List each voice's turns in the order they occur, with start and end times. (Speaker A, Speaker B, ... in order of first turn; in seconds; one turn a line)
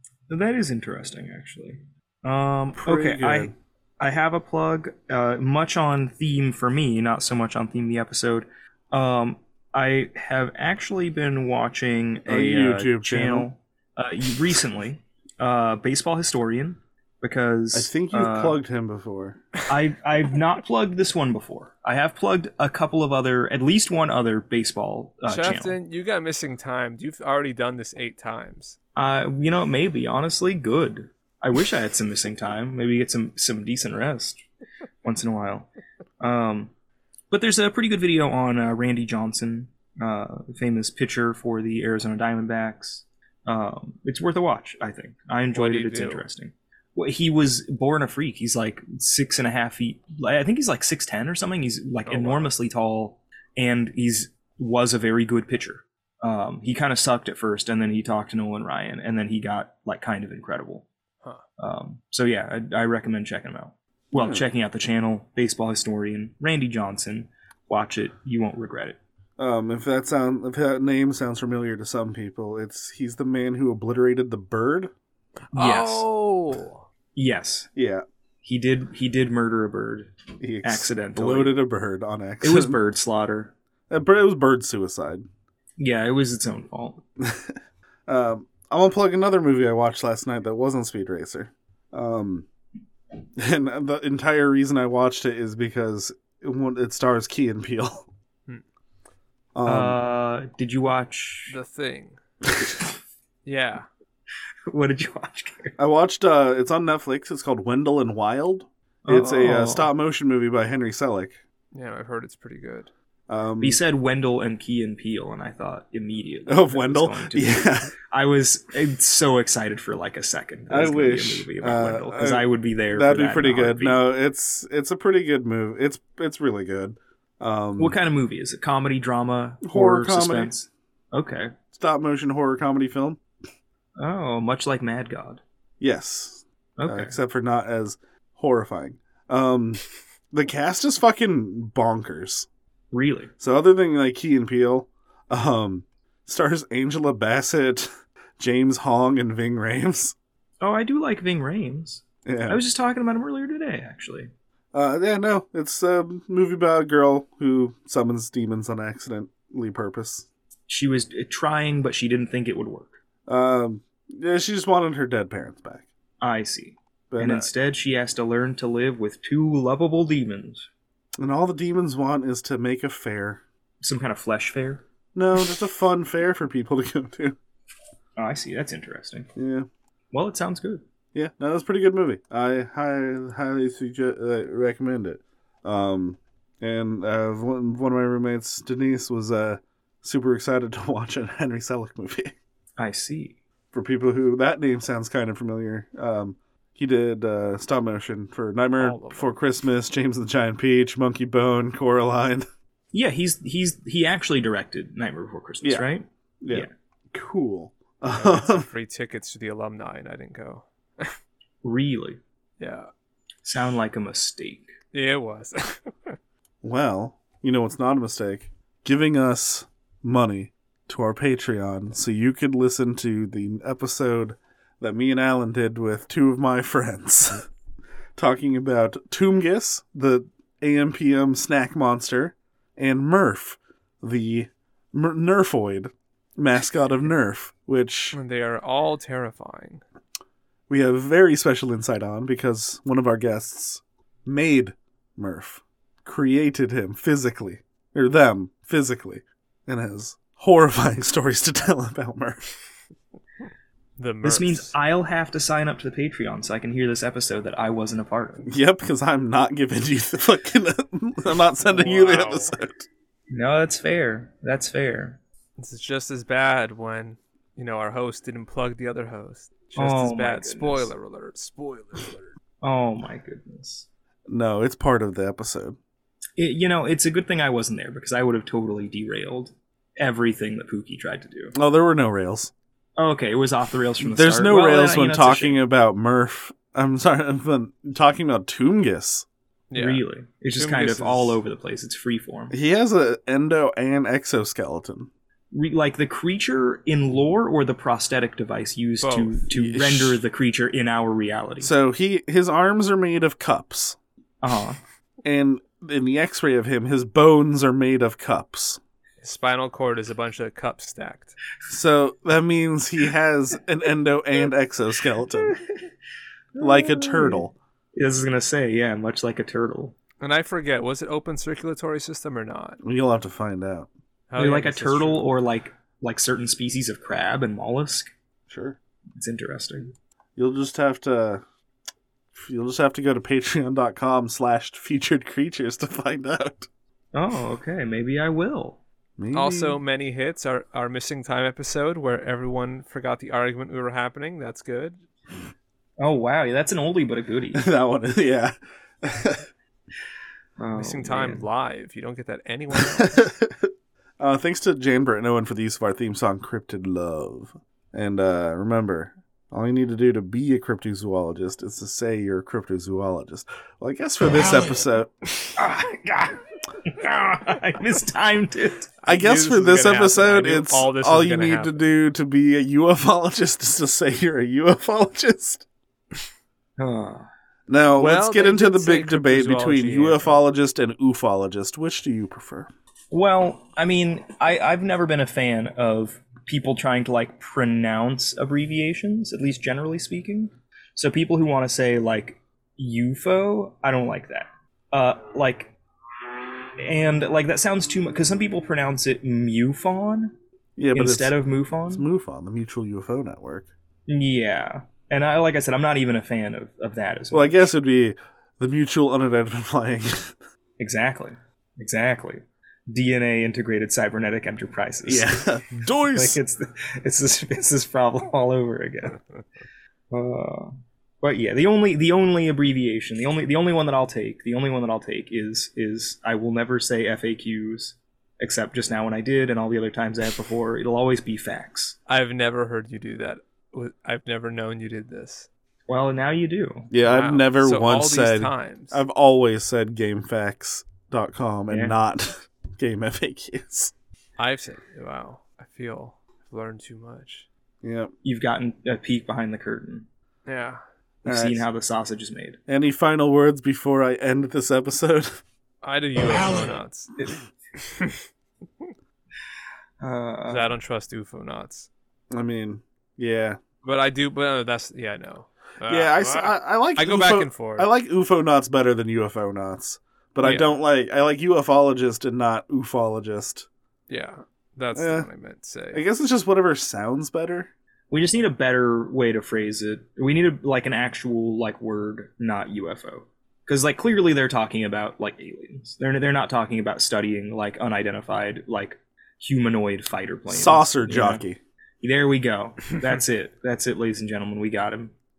Speaker A: 0.3-18.6
Speaker B: 2.8-3.5
Speaker B: 12.3-13.5
Speaker B: 17.7-19.4
Speaker A: 19.7-25.8
Speaker C: 25.3-28.8
Speaker A: 29.0-34.5
Speaker A: 35.0-35.7
Speaker A: 36.2-36.7
Speaker A: 37.3-60.9
Speaker C: 45.5-46.2
Speaker C: 52.1-52.5
Speaker A: 61.6-69.0
Speaker B: 64.1-64.5
Speaker B: 69.4-74.9
Speaker C: 75.5-76.8
Speaker A: 75.5-76.1
Speaker A: 77.1-77.7
Speaker B: 77.8-78.0
Speaker A: 78.4-81.6
Speaker B: 80.4-82.8
Speaker A: 82.4-83.5
Speaker B: 83.9-85.3
Speaker A: 85.8-87.0
Speaker B: 87.2-92.5
Speaker B: 93.4-98.1
Speaker B: 99.5-100.0
Speaker A: 99.7-101.6
Speaker C: 101.5-102.2
Speaker C: 103.5-103.9
Speaker A: 104.7-105.8
Speaker B: 105.8-111.4
Speaker A: 109.0-109.9
Speaker C: 111.7-112.9
Speaker B: 113.3-113.8
Speaker A: 113.6-124.0
Speaker B: 116.5-117.9
Speaker B: 120.7-128.0
Speaker A: 127.8-131.6
Speaker B: 129.6-130.5
Speaker B: 131.7-133.2
Speaker A: 134.0-135.4
Speaker B: 135.8-142.5
Speaker A: 136.8-137.1
Speaker A: 142.9-143.3
Speaker B: 143.4-150.1
Speaker A: 150.6-154.3
Speaker B: 152.3-152.6
Speaker B: 154.7-160.3
Speaker A: 160.7-163.0
Speaker B: 163.3-165.9
Speaker A: 166.2-170.7
Speaker B: 167.1-167.5
Speaker B: 171.2-173.4
Speaker A: 173.8-174.8
Speaker B: 175.1-177.4
Speaker A: 178.2-179.3
Speaker B: 179.4-179.7
Speaker A: 180.1-180.8
Speaker B: 181.1-192.3
Speaker A: 192.8-193.4
Speaker B: 193.7-202.5
Speaker C: 198.8-199.4
Speaker A: 202.9-206.7
Speaker B: 206.4-208.7
Speaker C: 208.1-211.2
Speaker A: 211.6-212.2
Speaker C: 212.6-212.9
Speaker A: 213.4-214.8
Speaker C: 214.9-216.2
Speaker B: 216.6-227.5
Speaker B: 228.2-238.2
Speaker C: 238.1-239.8
Speaker B: 240.7-252.4
Speaker C: 254.0-254.7
Speaker A: 254.2-258.5
Speaker B: 258.5-262.9
Speaker C: 261.7-262.5
Speaker A: 263.3-265.2
Speaker C: 265.6-272.3
Speaker A: 269.8-270.9
Speaker A: 272.6-273.9
Speaker B: 274.3-275.8
Speaker A: 276.4-281.6
Speaker B: 281.6-282.5
Speaker A: 283.0-285.6
Speaker B: 284.0-289.3
Speaker C: 289.7-290.1
Speaker A: 289.8-292.6
Speaker C: 290.6-291.4
Speaker B: 292.5-295.1
Speaker A: 295.5-301.7
Speaker C: 299.0-299.4
Speaker B: 299.5-300.2
Speaker B: 301.6-304.0
Speaker A: 304.4-304.8
Speaker B: 305.2-308.8
Speaker C: 309.2-311.4
Speaker B: 311.7-315.6
Speaker A: 315.5-315.8
Speaker A: 316.6-320.0
Speaker B: 316.6-317.6
Speaker C: 320.2-322.8
Speaker B: 322.8-323.9
Speaker C: 324.3-325.3
Speaker A: 324.4-328.1
Speaker B: 328.5-328.8
Speaker A: 329.2-329.9
Speaker B: 330.4-331.4
Speaker B: 332.3-336.7
Speaker A: 337.1-338.8
Speaker B: 339.2-339.8
Speaker C: 339.3-345.0
Speaker A: 346.0-347.6
Speaker B: 347.5-349.5
Speaker A: 350.6-351.4
Speaker C: 350.8-353.3
Speaker B: 352.7-365.1
Speaker A: 365.6-368.9
Speaker C: 369.0-371.8
Speaker B: 369.1-375.6
Speaker A: 376.8-377.3
Speaker B: 377.7-382.7
Speaker C: 378.0-380.4
Speaker A: 383.1-395.8
Speaker A: 396.8-400.4
Speaker B: 400.8-401.4
Speaker A: 400.9-402.1
Speaker B: 401.9-403.7
Speaker A: 404.1-407.7
Speaker B: 407.3-410.3
Speaker A: 410.8-415.4
Speaker B: 415.1-416.4
Speaker A: 416.1-419.2
Speaker A: 420.1-432.0
Speaker C: 432.1-435.5
Speaker A: 435.9-436.9
Speaker B: 436.9-443.9
Speaker C: 437.0-439.0
Speaker A: 441.7-441.9
Speaker C: 444.4-447.5
Speaker B: 447.8-448.1
Speaker A: 448.2-450.1
Speaker C: 450.5-450.8
Speaker A: 451.2-452.6
Speaker B: 451.2-451.7
Speaker B: 452.7-455.3
Speaker C: 455.8-457.1
Speaker C: 457.8-458.2
Speaker A: 460.0-460.7
Speaker C: 460.5-461.9
Speaker B: 462.3-463.6
Speaker C: 463.8-467.9
Speaker B: 465.9-473.7
Speaker C: 470.4-470.7
Speaker C: 474.1-476.0
Speaker B: 474.9-475.3
Speaker B: 475.9-477.7
Speaker A: 478.1-491.4
Speaker B: 490.5-491.6
Speaker A: 492.0-495.1